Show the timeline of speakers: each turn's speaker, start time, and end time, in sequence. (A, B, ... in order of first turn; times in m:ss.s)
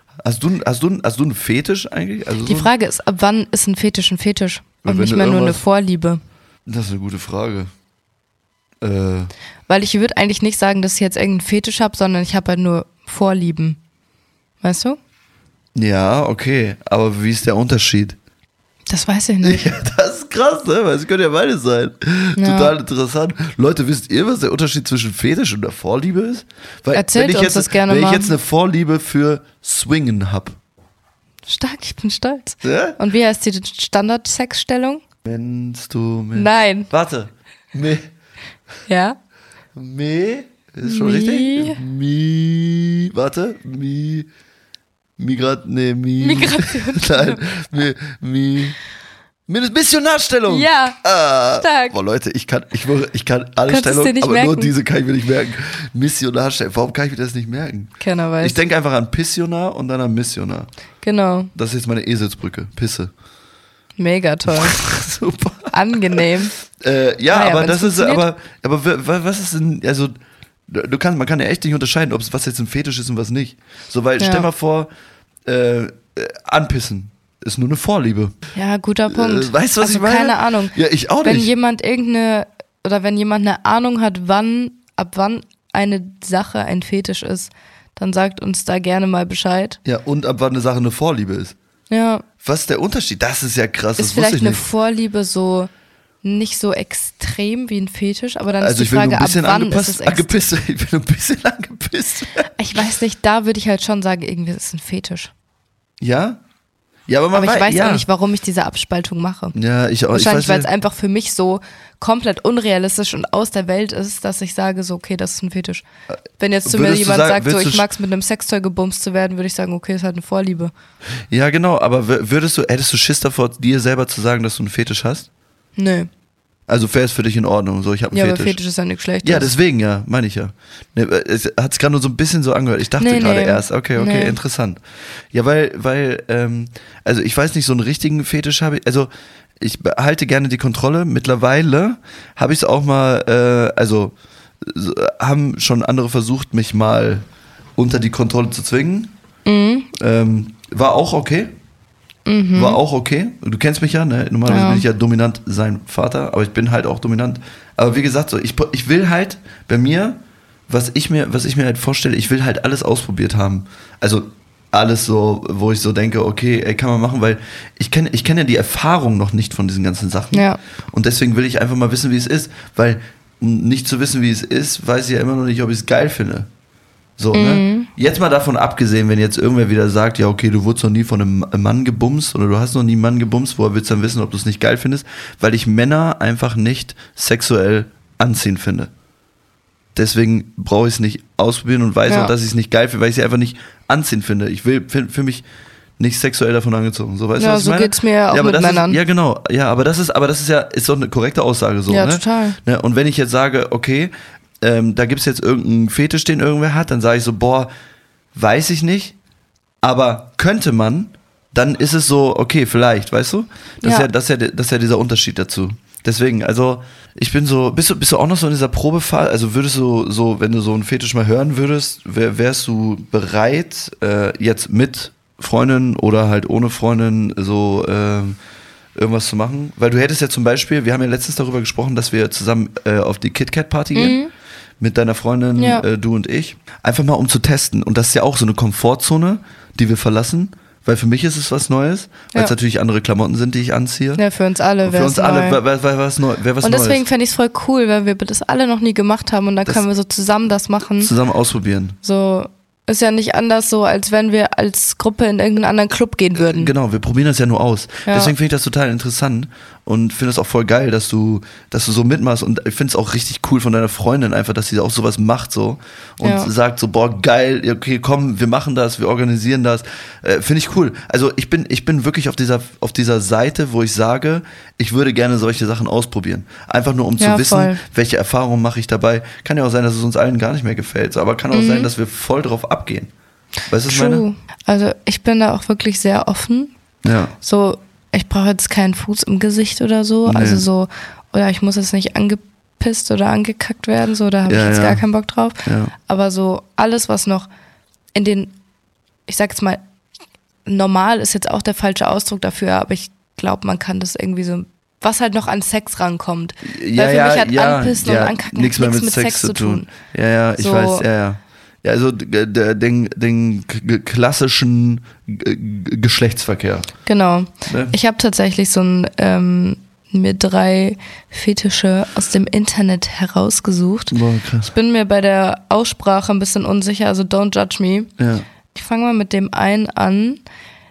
0:00.2-0:02.7 A
0:02.5-0:06.2 B
0:04.8-0:05.6 A
0:06.7-0:07.7 A
0:08.8-0:09.3 A
0:09.7-0:13.8 B
0:14.6-0:15.0 B
0:15.8-0:18.2 A
0:18.9-0:19.7 B
0:19.4-0:30.6 A
0:22.4-0:22.7 B
0:26.9-0:28.4 B
0:31.5-0:35.0 B
0:32.6-0:33.0 A
0:35.2-0:38.1 A
0:36.4-0:36.9 B
0:38.9-0:39.2 B
0:39.8-0:44.3 A
0:40.8-0:41.8 B
0:45.2-0:48.8 A
0:46.2-0:47.4 B
0:49.5-1:00.7 A
0:50.5-0:51.0 B
0:51.5-0:52.0 B
0:53.7-0:54.7 B
0:58.0-0:58.6 B
1:01.0-1:01.5 B
1:01.6-1:03.1 A
1:04.0-1:04.8 B
1:04.5-1:06.2 A
1:05.7-1:06.6 B
1:06.8-1:10.1 A
1:07.3-1:08.3 B
1:10.7-1:14.9 A
1:14.2-1:14.5 B
1:15.5-1:18.3 A
1:18.6-1:29.8 B
1:19.1-1:21.5 A
1:29.8-1:31.6 A
1:31.9-1:32.2 B
1:32.4-1:34.7 A
1:34.0-1:35.7 B
1:36.2-1:40.3 B
1:38.6-1:42.5 A
1:42.6-1:45.3 B
1:46.0-1:46.4 A
1:47.1-1:48.0 A
1:47.3-1:49.6 B
1:49.6-1:50.7 A
1:50.1-1:55.8 B
1:56.4-2:00.7 B
1:56.6-1:57.8 A
2:01.3-2:05.3 A
2:05.8-2:06.1 B
2:06.7-2:08.6 A
2:08.1-2:09.5 B
2:09.2-2:14.8 A
2:13.0-2:14.4 B
2:15.3-2:27.2 A
2:27.8-2:29.1 A
2:29.4-2:29.9 B
2:30.0-2:31.5 A
2:32.3-2:32.8 B
2:32.6-2:56.5 A
2:34.4-2:34.9 B
2:50.3-2:50.6 B
2:57.2-3:08.9 A
2:57.3-2:57.9 B
3:09.9-3:15.4 A
3:12.1-3:12.3 B
3:16.0-3:27.7 A
3:17.4-3:19.0 B
3:21.9-3:22.6 B
3:28.3-3:29.2 A
3:29.8-3:48.4 A
3:49.0-3:54.2 A
3:53.9-3:54.3 B
3:54.8-4:04.2 A
3:55.6-3:55.8 B
4:04.2-4:05.6 B
4:04.8-4:07.1 A
4:06.6-4:11.1 B
4:11.0-4:12.0 A
4:12.0-4:16.7 B
4:16.4-4:43.1 A
4:18.1-4:18.3 B
4:26.2-4:26.5 B
4:37.2-4:37.8 B
4:41.5-4:41.9 B
4:43.7-4:44.3 A
4:43.9-4:46.7 B
4:47.0-4:47.3 A
4:47.4-4:57.5 B
4:50.3-4:50.6 A
4:54.5-4:55.0 A
4:55.6-4:55.9 A
4:58.2-4:58.6 B
4:59.3-4:59.8 B
5:00.7-5:09.9 B
5:06.6-5:16.9 A
5:10.6-5:11.1 B
5:17.1-5:24.2 B
5:17.7-5:17.9 A
5:24.1-5:24.7 A
5:24.7-5:28.1 B
5:28.2-5:28.4 A
5:28.7-5:30.4 B